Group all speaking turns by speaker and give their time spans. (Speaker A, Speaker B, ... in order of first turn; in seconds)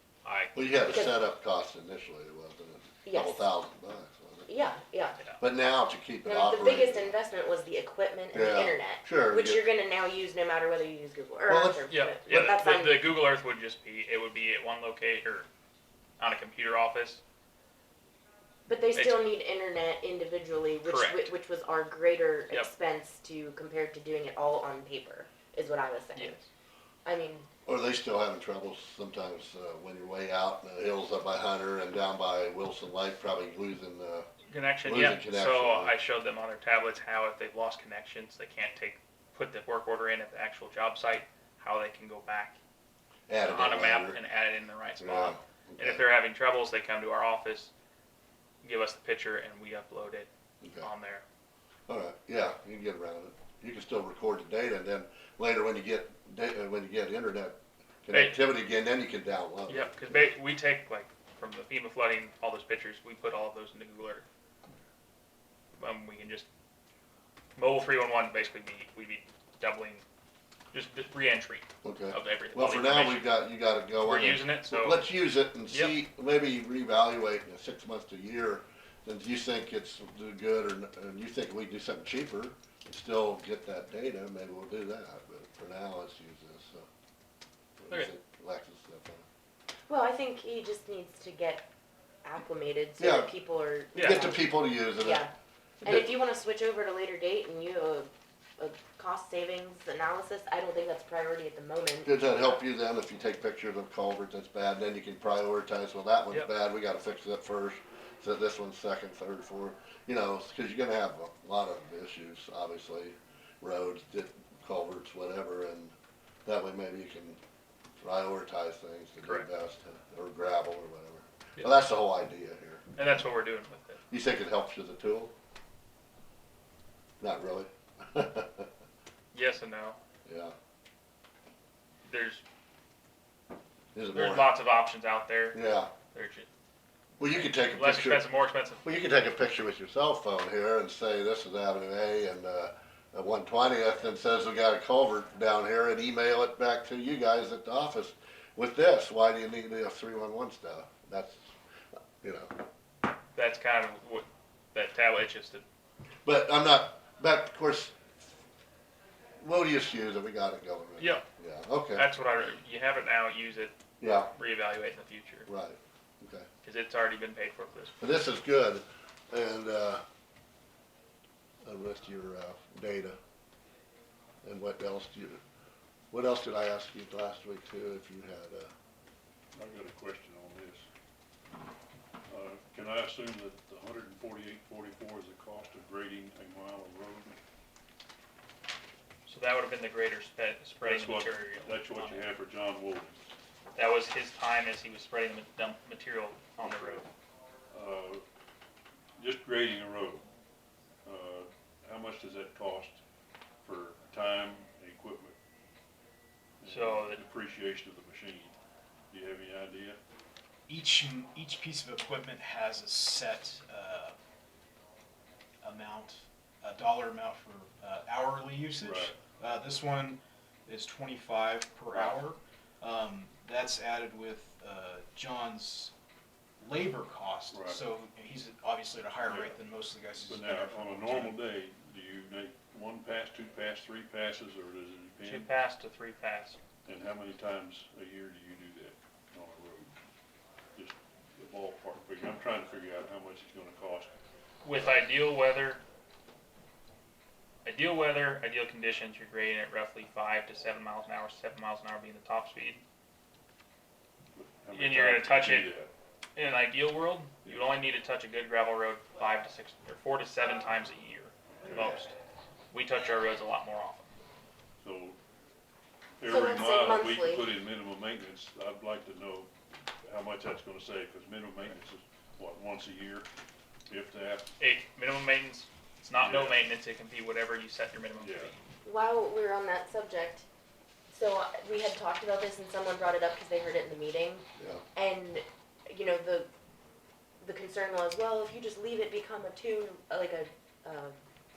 Speaker A: 0.2-0.9, 11.9-15.5, 16.2-17.2, 18.9-19.2, 20.8-21.3, 26.1-26.4, 34.5-42.6, 43.4-47.7, 48.6-51.2, 58.1-58.4, 59.7-64.3, 65.8-66.5, 67.6-70.0, 70.7-73.3, 74.0-75.1, 75.7-76.0, 94.0-94.3, 119.2-119.5, 123.0-124.0, 129.3-130.0, 132.1-132.4, 134.1-135.6, 136.1-136.5, 137.2-138.8, 153.3-155.6, 161.9-163.8, 164.3-165.5, 166.6-168.0, 189.3-192.3, 193.8-197.1, 206.7-207.2, 235.2-236.6, 244.6-245.8, 247.7-252.8, 254.7-255.7, 256.4-262.1, 262.7-264.1, 274.6-278.6
Speaker B: 0.6-4.5, 5.4-7.1, 8.3-9.7, 11.5-12.5, 27.7-34.3, 34.8-35.9, 43.3-44.2, 45.0-46.0, 50.6-50.9, 51.9-60.3, 71.8-86.9, 87.8-89.3, 93.0-93.3, 93.9-95.3, 95.8-96.1, 102.0-115.9, 116.5-117.4, 118.0-122.9, 124.1-125.3, 127.2-128.7, 130.3-130.5, 133.9-134.5, 135.5-135.9, 137.2-138.2, 138.8-151.5, 152.2-152.5, 156.2-158.0, 159.4-162.1, 164.0-164.3, 165.5-166.5, 168.0-170.0, 171.6-173.2, 174.4-175.4, 176.1-178.7, 284.6-284.8
Speaker C: 0.9-1.1, 3.0-3.5, 4.5-5.2, 6.2-13.1, 18.7-26.4, 27.1-27.5, 89.9-91.7, 92.2-95.3, 95.8-102.1, 266.2-267.5, 278.8-280.5, 281.1-286.5, 287.4-291.1
Speaker D: 179.6-180.9, 182.3-187.4, 190.8-193.3, 196.6-197.1, 197.7-198.2, 199.2-200.2, 201.1-203.0, 203.6-205.4, 206.6-208.6, 209.1-210.0, 218.8-219.2, 227.5-227.8, 229.2-229.6, 230.2-235.5, 236.8-239.9, 240.8-244.2, 254.3-255.9, 257.4-257.8, 261.6-262.0, 264.8-265.2, 266.2-269.5, 270.0-273.3, 273.9-274.5, 276.2-276.6, 278.2-278.5
Speaker E: 210.7-214.2, 215.6-225.9, 226.6-231.4